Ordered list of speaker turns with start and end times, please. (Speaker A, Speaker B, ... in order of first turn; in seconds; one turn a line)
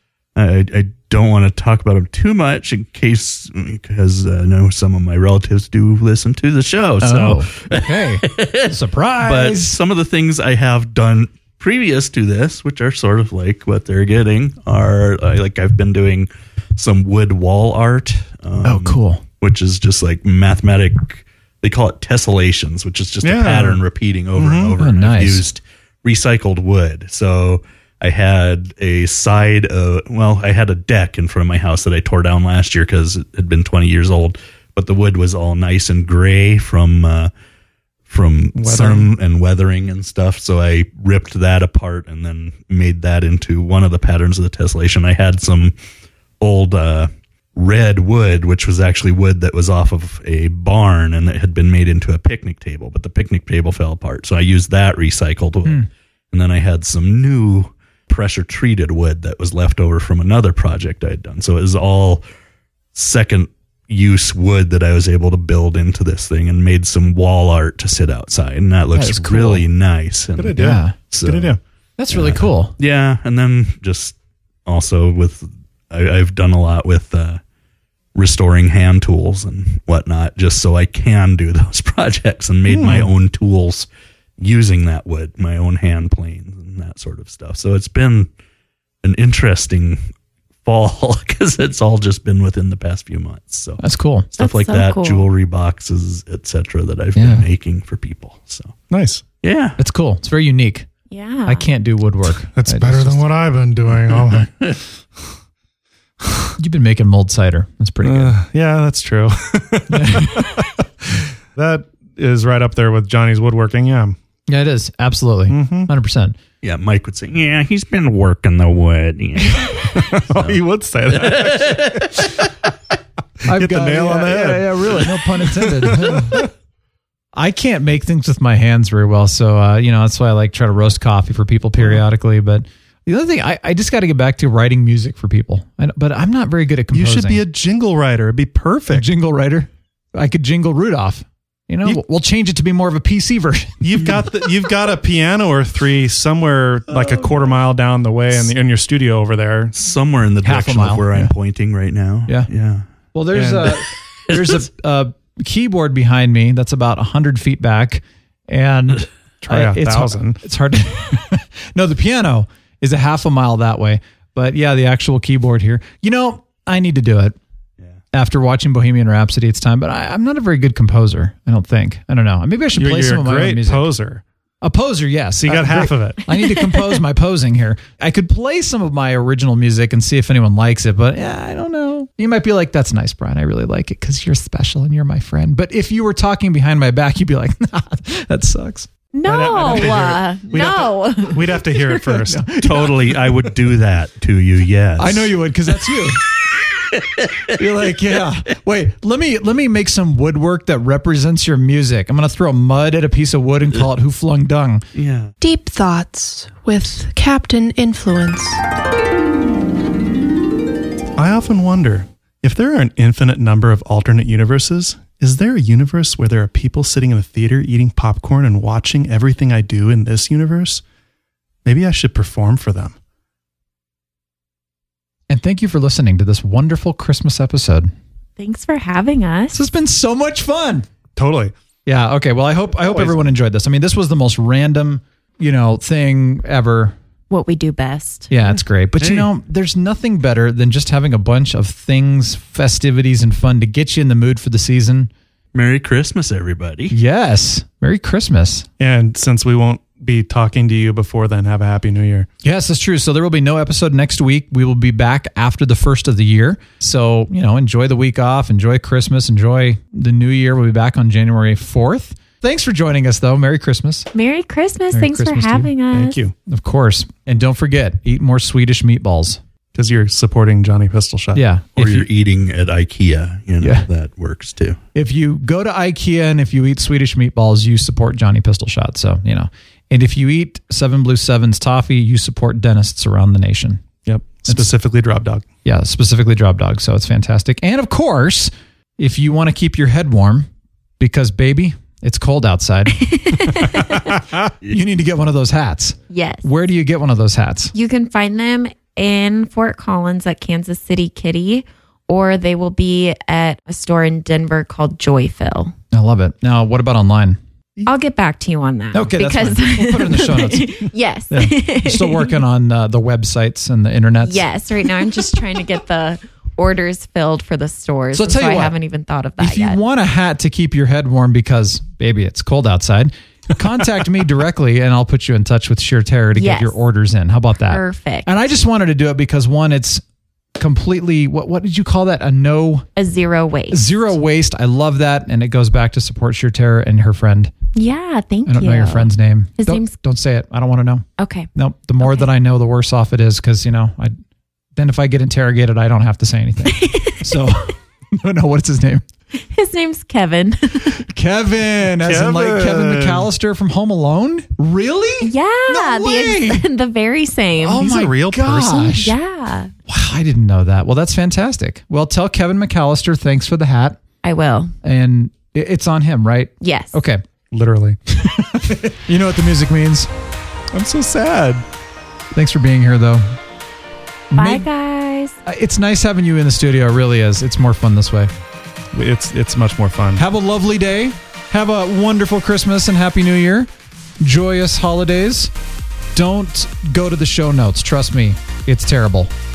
Speaker A: 0.4-37.3
Speaker B: 7.0-9.8
Speaker B: 18.6-19.2
Speaker C: 23.2-23.8
Speaker C: 24.4-24.8
Speaker B: 24.8-25.4
Speaker A: 38.1-45.8
Speaker C: 38.5-39.1
Speaker A: 46.4-62.2
Speaker A: 62.9-71.6
Speaker B: 68.9-69.7
Speaker C: 70.4-71.6
Speaker B: 70.6-71.0
Speaker B: 72.0-72.7
Speaker A: 72.1-77.4
Speaker A: 78.2-83.9
Speaker C: 82.7-83.1
Speaker A: 84.4-88.3
Speaker A: 89.0-90.0
Speaker A: 90.6-93.8
Speaker B: 93.8-94.3
Speaker A: 94.3-98.8
Speaker D: 94.4-95.3
Speaker B: 97.2-97.5
Speaker C: 98.9-99.2
Speaker A: 99.4-99.8
Speaker B: 99.8-100.9
Speaker D: 101.1-101.7
Speaker B: 101.5-103.3
Speaker C: 102.5-104.6
Speaker A: 104.1-104.8
Speaker C: 106.2-106.5
Speaker B: 106.6-108.3
Speaker C: 108.0-114.2
Speaker B: 109.9-110.4
Speaker B: 114.5-116.4
Speaker C: 115.5-115.9
Speaker A: 116.6-122.5
Speaker C: 119.6-122.3
Speaker C: 123.4-126.4
Speaker B: 123.5-126.5
Speaker B: 127.3-137.4
Speaker C: 136.9-139.1
Speaker B: 138.9-144.2
Speaker C: 143.8-149.7
Speaker A: 146.9-147.3
Speaker A: 149.7-152.9
Speaker B: 150.4-151.3
Speaker B: 153.1-167.4
Speaker C: 153.3-153.8
Speaker A: 154.3-154.6
Speaker C: 159.4-160.4
Speaker B: 168.1-173.9
Speaker C: 172.7-174.2
Speaker B: 174.6-188.9
Speaker C: 175.4-176.2
Speaker D: 189.1-191.9
Speaker C: 189.3-192.4
Speaker B: 192.0-193.2
Speaker A: 192.6-195.4
Speaker B: 195.0-196.2
Speaker A: 196.9-197.4
Speaker B: 197.5-204.9
Speaker A: 204.9-205.3
Speaker E: 205.4-208.6
Speaker C: 211.2-220.8
Speaker C: 221.7-223.0
Speaker B: 225.3-227.9
Speaker D: 228.4-229.7
Speaker B: 229.5-230.9
Speaker C: 231.2-231.5
Speaker B: 231.9-237.0
Speaker C: 232.8-233.3
Speaker D: 237.3-238.3
Speaker B: 238.3-245.1
Speaker A: 238.5-239.3
Speaker A: 245.5-247.0
Speaker B: 246.9-248.7
Speaker C: 248.8-252.3
Speaker B: 252.4-264.1
Speaker D: 264.1-266.2
Speaker B: 264.9-265.7
Speaker C: 265.9-266.3
Speaker B: 266.5-269.4
Speaker C: 269.7-271.4
Speaker B: 271.4-272.1
Speaker A: 271.8-274.8
Speaker B: 273.6-273.9
Speaker B: 274.9-283.8
Speaker C: 284.1-285.4
Speaker B: 285.6-290.5
Speaker B: 291.0-293.7
Speaker D: 293.0-293.9
Speaker B: 294.7-297.7
Speaker D: 296.1-296.5
Speaker D: 297.7-305.7
Speaker B: 305.9-307.4
Speaker D: 307.8-312.4
Speaker B: 308.9-314.5
Speaker D: 314.2-319.8
Speaker B: 318.1-318.8
Speaker B: 319.4-330.0
Speaker D: 326.4-326.8
Speaker D: 327.7-328.3
Speaker B: 330.6-332.9
Speaker D: 333.0-333.8
Speaker B: 333.7-337.5
Speaker D: 337.8-339.9
Speaker B: 338.5-344.1
Speaker D: 341.2-341.5
Speaker D: 342.0-342.3
Speaker B: 344.8-349.1
Speaker D: 346.7-347.2
Speaker D: 349.5-351.0
Speaker B: 350.9-356.6
Speaker C: 352.0-353.3
Speaker D: 355.2-357.9
Speaker B: 357.6-359.1
Speaker C: 357.8-358.9
Speaker D: 358.9-359.7
Speaker B: 359.9-364.0
Speaker D: 364.2-364.7
Speaker B: 364.8-367.2
Speaker D: 366.6-366.9
Speaker C: 367.5-368.0
Speaker B: 368.1-370.1
Speaker C: 370.7-371.6
Speaker B: 372.3-373.4
Speaker B: 374.3-374.7
Speaker D: 374.4-375.4
Speaker B: 375.5-378.3
Speaker C: 378.9-380.2
Speaker B: 380.2-383.7
Speaker B: 384.2-385.5
Speaker B: 386.1-389.3